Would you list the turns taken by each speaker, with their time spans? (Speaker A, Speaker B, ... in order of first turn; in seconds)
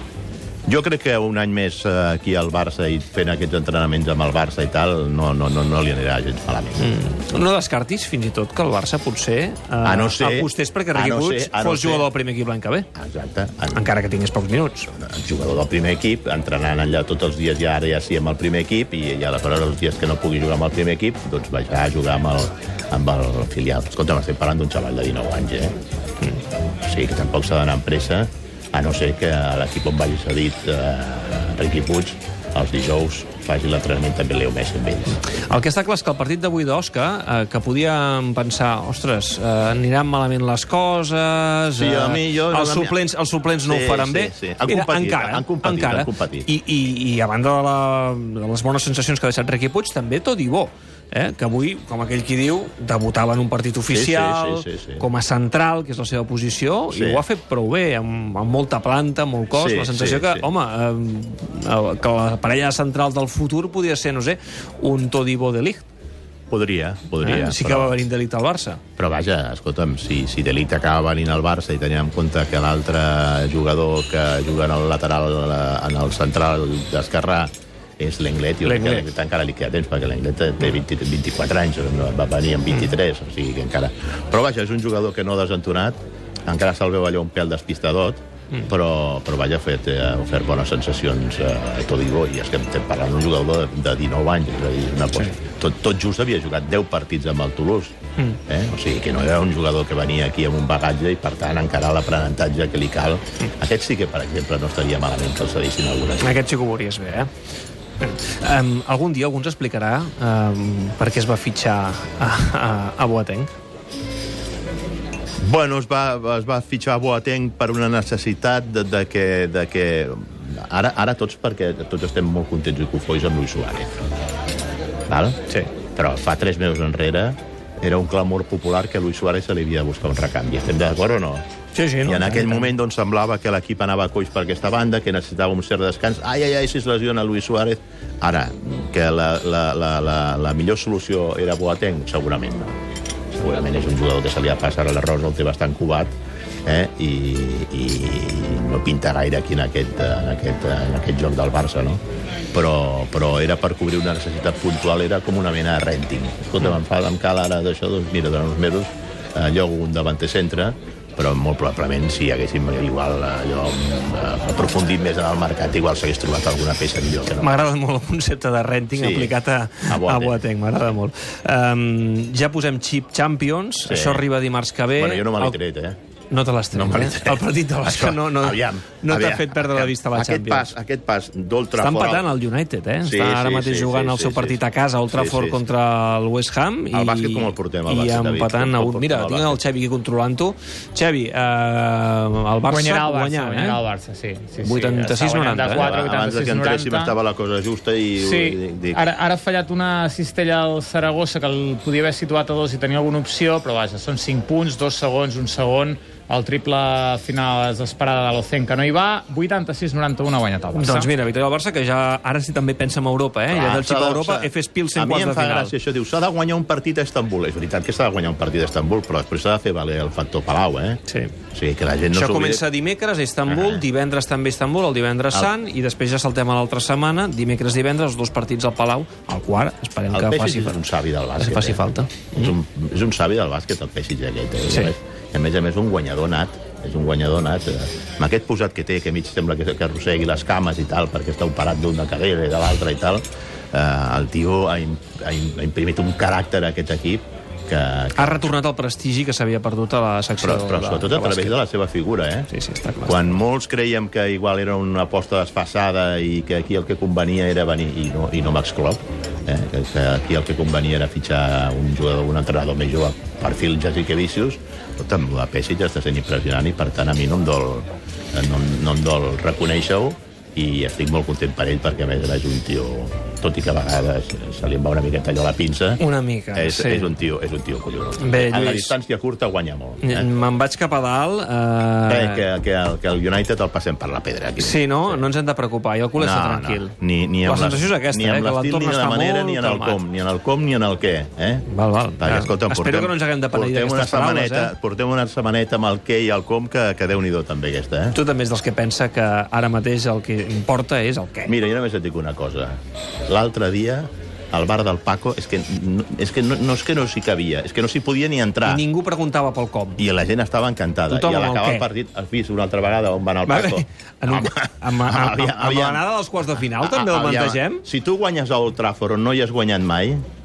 Speaker A: 0.7-6.8, 9.8-12.1, 12.9-13.9, 14.9-25.7, 26.8-35.3, 41.8-43.0, 43.6-46.5, 53.9-55.0, 56.9-57.2, 59.5-60.5, 66.5-67.9, 69.0-97.9, 98.5-106.4, 115.4-123.9, 125.1-125.4, 126.0-131.4, 132.0-142.7, 143.3-146.1, 146.7-152.0, 152.5-167.5, 168.9-170.4, 173.8-174.3, 174.9-176.0, 176.7-182.3, 183.0-184.6, 185.1-185.6, 186.9-189.6, 195.7-199.0, 213.5-221.0, 221.5-222.6, 223.5-223.8, 230.1-248.5, 250.4-252.5, 253.1-276.0, 276.5-280.3, 282.1-285.2, 286.2-291.6, 292.2-298.1, 301.5-308.8, 310.0-316.0, 316.6-320.2
Speaker B: 6.8-12.9, 13.7-14.9, 35.2-65.9, 67.2-68.8, 78.6-79.1, 106.2-107.3, 108.0-113.5, 131.7-132.7, 167.4-175.6, 176.3-180.7, 181.8-193.8, 194.6-196.0, 210.7-215.7, 221.1-221.3, 222.1-230.8, 231.4-232.5, 248.2-251.5, 252.5-253.3, 276.0-277.1, 278.2-278.9, 280.0-282.4, 284.6-290.0, 291.7-294.7, 298.1-301.5, 308.6-310.0, 311.1-311.9, 313.4-317.8
Speaker C: 192.7-197.2, 198.2-211.1